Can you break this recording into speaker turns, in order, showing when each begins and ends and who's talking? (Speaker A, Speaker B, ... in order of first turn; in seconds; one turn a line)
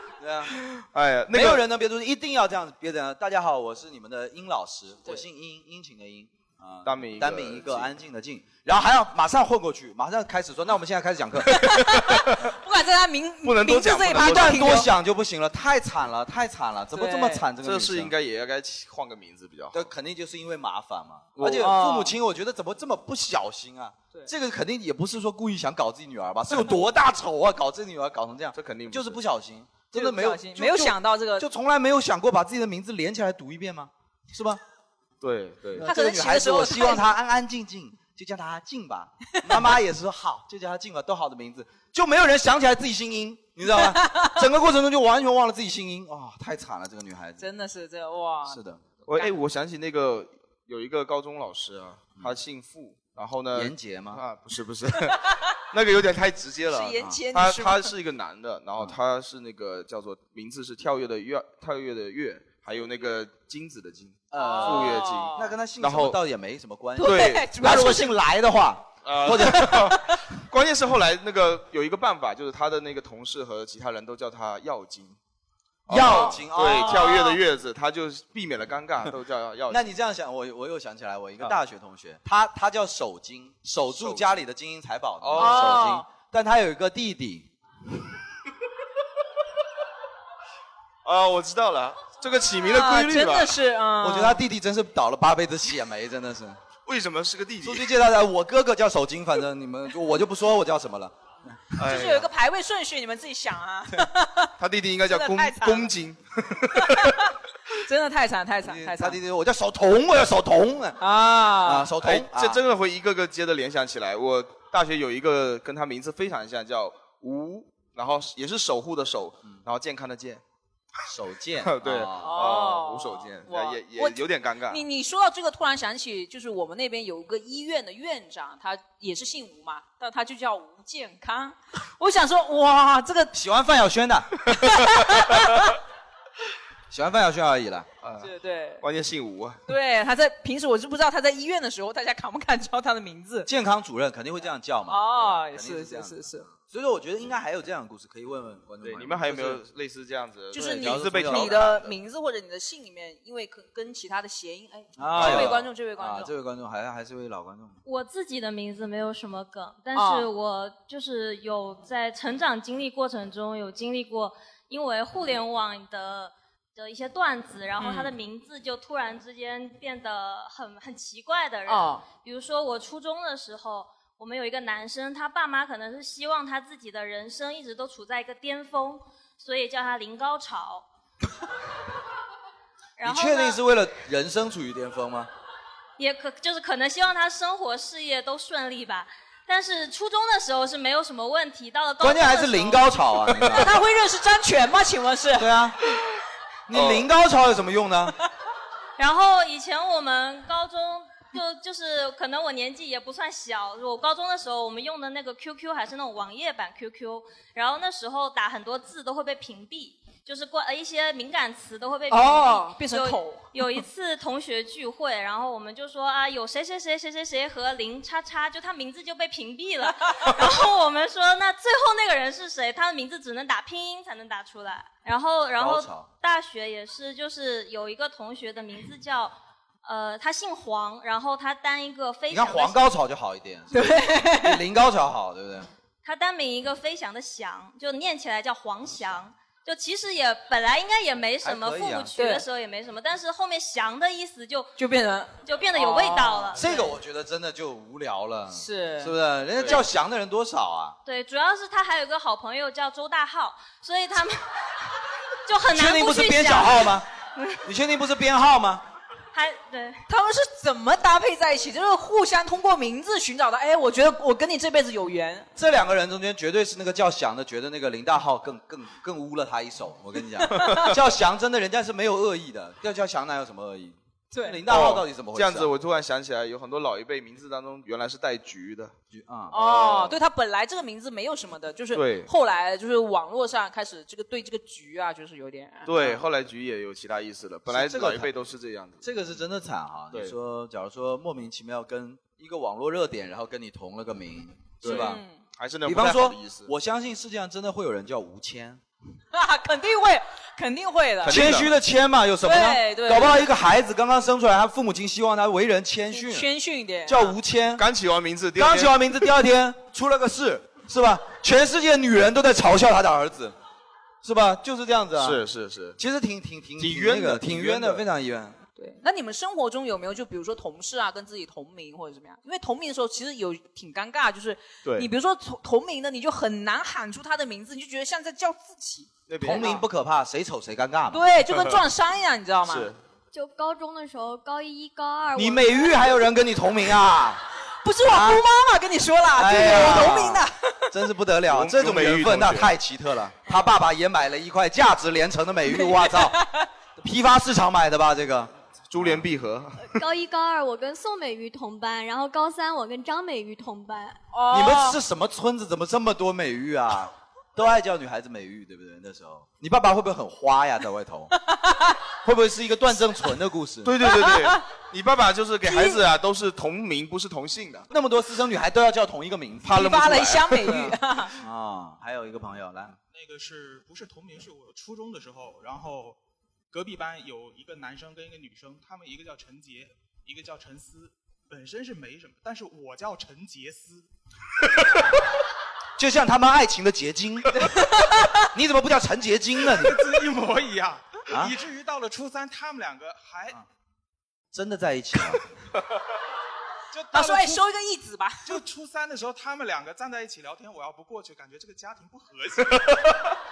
Speaker A: 0.2-0.6
Speaker B: 0.6-1.6
Speaker A: 1.3-11.6
Speaker B: 6.8-7.9
Speaker C: 11.5-14.9
Speaker B: 13.4-14.8
Speaker A: 14.1-18.1
Speaker C: 16.9-17.5
Speaker B: 17.6-19.9
Speaker A: 19.7-34.6
Speaker B: 21.4-21.7
Speaker C: 21.5-22.1
Speaker B: 28.5-29.2
Speaker C: 29.9-31.5
Speaker B: 35.2-35.9
Speaker A: 35.7-47.5
Speaker C: 35.8-37.1
Speaker C: 43.8-44.3
Speaker C: 47.4-48.6
Speaker A: 48.5-48.8
Speaker B: 49.0-66.2
Speaker A: 53.5-54.2
Speaker C: 56.7-57.9
Speaker A: 64.3-69.9
Speaker C: 64.3-65.5
Speaker C: 67.0-68.2
Speaker B: 67.0-67.5
Speaker B: 69.0-75.2
Speaker B: 75.9-79.9
Speaker A: 75.9-77.1
Speaker C: 76.0-77.4
Speaker A: 79.7-87.5
Speaker B: 83.9-84.2
Speaker B: 85.2-85.9
Speaker C: 85.3-86.0
Speaker B: 91.0-93.6
Speaker C: 92.5-94.4
Speaker A: 94.0-96.6
Speaker B: 96.8-97.9
Speaker A: 97.6-101.1
Speaker B: 101.8-102.3
Speaker C: 101.8-104.5
Speaker B: 104.6-107.1
Speaker C: 105.1-105.9
Speaker C: 106.7-107.3
Speaker C: 107.8-109.2
Speaker A: 108.6-112.6
Speaker C: 111.0-111.9
Speaker B: 112.0-120.4
Speaker A: 121.1-122.5
Speaker B: 121.6-124.8
Speaker C: 122.2-133.3
Speaker A: 133.3-134.4
Speaker C: 134.5-135.7
Speaker A: 136.9-137.9
Speaker B: 138.0-139.6
Speaker C: 138.2-138.8
Speaker C: 139.7-143.5
Speaker A: 143.4-149.6
Speaker C: 144.9-146.5
Speaker B: 148.8-151.9
Speaker C: 150.5-156.3
Speaker A: 150.6-151.8
Speaker A: 155.0-157.8
Speaker B: 155.2-155.6
Speaker D: 157.8-180.8
Speaker C: 159.9-160.3
Speaker C: 167.8-168.2
Speaker C: 171.7-172.0
Speaker D: 183.0-183.6
Speaker A: 183.0-185.3
Speaker D: 186.0-192.9
Speaker A: 192.0-193.7
Speaker C: 193.5-195.5
Speaker A: 195.3-195.8
Speaker A: 196.7-198.1
Speaker B: 196.7-197.1
Speaker D: 199.0-232.9
Speaker C: 212.1-213.8
Speaker A: 225.6-226.1
Speaker A: 232.3-235.7
Speaker C: 233.7-234.6
Speaker D: 236.0-244.7
Speaker A: 241.4-242.1
Speaker C: 242.1-242.5
Speaker C: 244.8-246.8
Speaker D: 245.4-246.9
Speaker A: 246.5-251.0
Speaker C: 248.5-249.2
Speaker B: 249.6-249.8
Speaker D: 251.0-254.7
Speaker D: 255.4-257.6
Speaker A: 255.7-257.1
Speaker A: 257.6-258.8
Speaker D: 259.3-260.0
Speaker C: 260.1-265.5
Speaker A: 265.6-275.7
Speaker C: 270.5-270.9
Speaker C: 274.3-274.6
Speaker B: 274.7-278.9
Speaker A: 279.1-279.9
Speaker C: 279.5-286.2
Speaker B: 281.9-282.3
Speaker B: 285.9-289.1
Speaker A: 287.7-288.3
Speaker A: 289.0-295.2
Speaker B: 294.8-296.7
Speaker C: 294.8-295.4
Speaker A: 295.8-298.8
Speaker C: 299.3-301.4
Speaker B: 301.2-301.7
Speaker A: 301.2-306.5
Speaker C: 302.4-303.5
Speaker C: 306.1-307.4
Speaker A: 307.0-307.9
Speaker B: 307.8-309.0
Speaker A: 308.5-313.6
Speaker A: 314.2-315.4
Speaker B: 315.2-316.0
Speaker A: 316.0-318.6
Speaker B: 316.8-318.0
Speaker C: 318.8-329.8
Speaker B: 324.8-325.1
Speaker B: 329.3-329.8
Speaker A: 329.4-331.2
Speaker C: 331.1-332.9
Speaker B: 331.5-331.8
Speaker B: 332.6-333.0
Speaker E: 333.3-336.1
Speaker A: 335.3-337.4
Speaker C: 337.8-340.7
Speaker A: 338.0-338.4
Speaker A: 339.3-346.4
Speaker B: 341.5-342.7
Speaker C: 345.7-346.7
Speaker A: 347.0-349.2
Speaker B: 348.9-349.9
Speaker E: 349.8-354.2
Speaker C: 354.3-355.0
Speaker A: 354.5-361.3
Speaker C: 361.4-362.0
Speaker A: 362.2-364.0
Speaker B: 363.8-367.9
Speaker C: 364.0-364.6
Speaker C: 365.6-366.0
Speaker A: 367.9-373.0
Speaker C: 369.6-371.3
Speaker B: 369.7-370.8
Speaker F: 373.1-376.2
Speaker F: 376.7-384.1
Speaker A: 386.0-387.5
Speaker C: 387.6-388.4
Speaker A: 388.5-390.1
Speaker F: 389.7-393.6
Speaker A: 391.3-391.6
Speaker A: 394.5-395.4
Speaker F: 396.9-397.6
Speaker C: 397.1-398.6
Speaker F: 398.4-403.0
Speaker B: 403.0-403.3